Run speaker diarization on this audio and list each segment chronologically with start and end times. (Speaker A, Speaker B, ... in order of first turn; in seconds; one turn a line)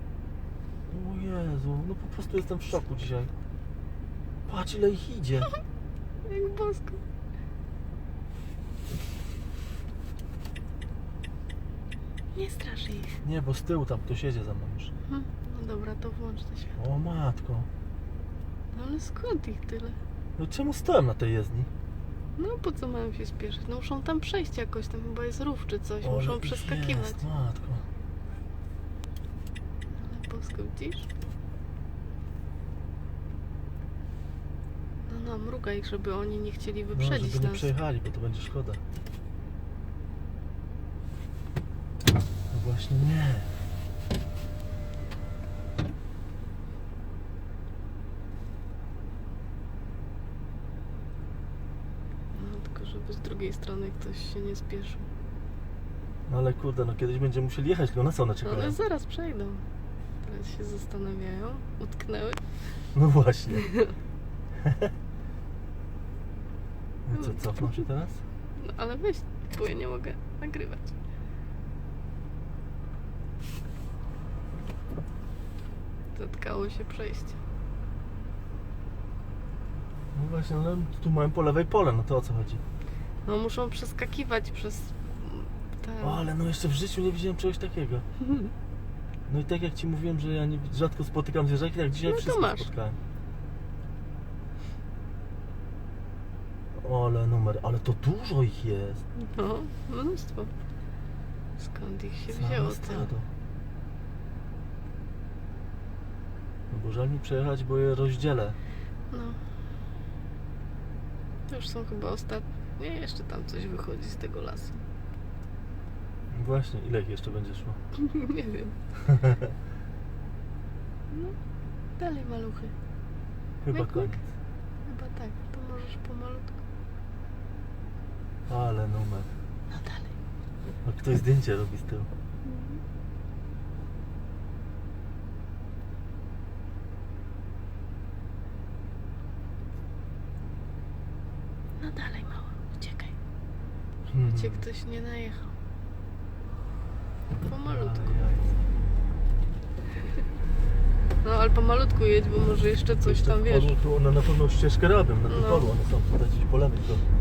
Speaker A: 0.9-3.3
Speaker A: 4.5-5.5
Speaker B: 6.2-7.0
Speaker B: 12.3-13.2
Speaker A: 13.2-14.9
Speaker B: 15.1-16.7
Speaker A: 16.8-17.7
Speaker B: 18.7-20.0
Speaker A: 20.4-21.7
Speaker B: 22.4-27.2
Speaker A: 26.0-27.9
Speaker B: 29.9-31.1
Speaker B: 35.1-37.7
Speaker A: 36.9-38.8
Speaker A: 42.5-43.5
Speaker B: 52.3-55.1
Speaker A: 56.3-58.8
Speaker B: 58.4-59.6
Speaker B: 60.2-62.4
Speaker A: 62.9-63.7
Speaker A: 64.6-64.9
Speaker A: 67.1-68.2
Speaker B: 67.2-67.8
Speaker B: 68.6-71.0
Speaker B: 76.2-77.4
Speaker A: 80.1-82.6
Speaker B: 83.2-86.2
Speaker A: 86.0-88.0
Speaker A: 89.3-93.0
Speaker B: 92.0-92.7
Speaker A: 96.8-99.0
Speaker B: 99.2-100.5
Speaker B: 101.6-103.1
Speaker A: 102.3-103.3
Speaker A: 106.7-108.6
Speaker B: 109.1-109.4
Speaker B: 111.5-114.8
Speaker A: 116.3-117.8
Speaker B: 118.0-118.8
Speaker A: 119.0-119.5
Speaker B: 121.1-121.4
Speaker B: 122.0-122.7
Speaker A: 123.6-124.2
Speaker B: 123.7-124.2
Speaker B: 124.8-126.6
Speaker A: 128.5-129.3
Speaker B: 129.7-130.1
Speaker A: 130.8-132.1
Speaker B: 132.4-132.8
Speaker B: 141.8-143.1
Speaker A: 144.1-144.6
Speaker B: 144.3-145.5
Speaker B: 147.4-148.2
Speaker A: 147.7-148.5
Speaker B: 151.2-153.8
Speaker A: 152.9-157.0
Speaker B: 155.3-155.7